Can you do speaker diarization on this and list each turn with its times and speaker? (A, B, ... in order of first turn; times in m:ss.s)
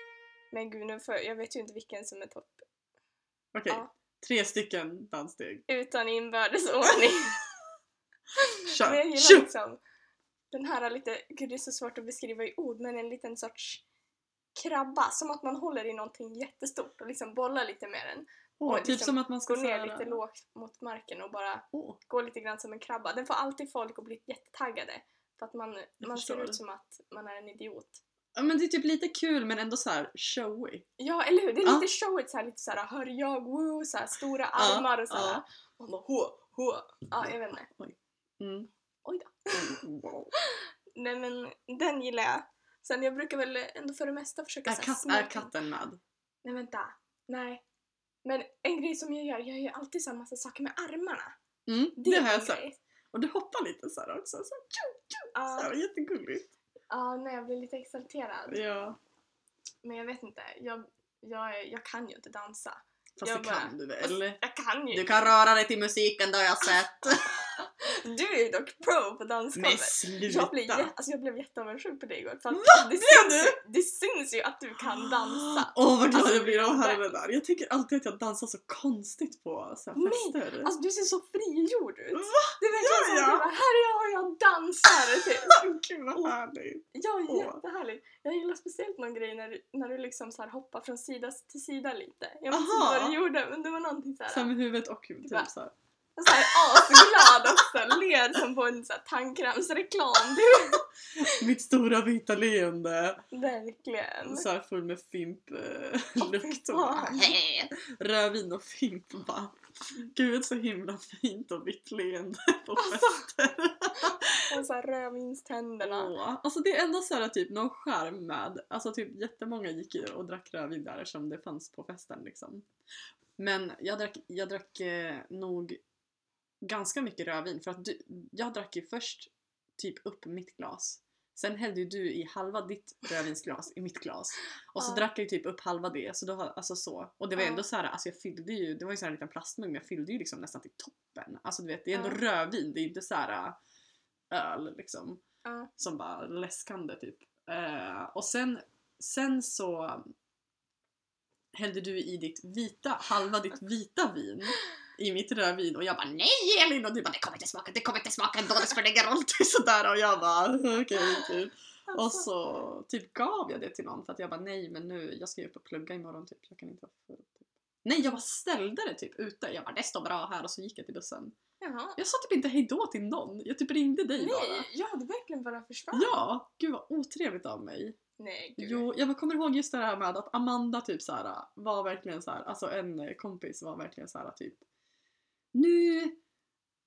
0:00.5-0:02.6 A
0:03.5-0:05.6 B
0:05.7-0:07.4 A
0:08.4-0:09.8 A
0:08.6-0:09.5 B
0:10.5-0:13.8 A
0:14.5-0:28.0 A
0:18.6-0:20.2 B
0:21.7-0:22.0 B
0:26.0-0:26.6 B
0:28.4-0:30.8 B
0:31.0-0:37.7 A
0:34.5-0:35.4 B
0:37.2-0:38.7 B
0:39.0-0:39.8 A
0:39.5-0:40.3 B
0:40.3-0:45.5 A
0:44.7-0:46.0 B
0:46.4-0:47.6 A
0:48.2-0:51.4 A
0:51.7-0:56.5 B
0:52.0-0:52.8 A
0:55.3-0:55.7 A
0:56.9-0:58.6 A
0:58.5-0:59.0 B
0:59.8-1:05.3 A
1:03.2-1:04.4 B
1:04.9-1:07.5 B
1:07.6-1:17.1 A
1:09.5-1:10.9 B
1:12.5-1:13.6 B
1:15.2-1:20.7 B
1:20.0-1:25.6 A
1:22.1-1:23.5 B
1:25.4-1:27.6 B
1:26.9-1:34.5 A
1:32.5-1:33.2 B
1:34.3-1:35.7 B
1:35.2-1:35.5 A
1:36.2-1:41.3 A
1:36.4-1:37.6 B
1:41.2-1:43.2 B
1:43.3-1:44.4 A
1:44.3-1:54.6 B
1:46.2-1:47.4 A
1:52.8-1:53.2 A
1:54.0-1:56.1 A
1:55.8-2:02.7 B
2:03.4-2:05.8 B
2:06.6-2:23.6 B
2:14.8-2:15.0 A
2:17.4-2:17.6 A
2:21.9-2:22.2 A
2:24.3-2:25.2 B
2:25.4-2:25.7 A
2:25.8-2:30.1 B
2:31.5-2:51.4 B
2:41.9-2:42.2 A
2:51.6-2:52.0 A
2:52.0-2:54.7 B
2:54.2-2:56.2 A
2:55.9-2:58.0 B
2:58.2-2:58.9 A
2:58.6-3:04.6 B
3:05.5-3:06.2 B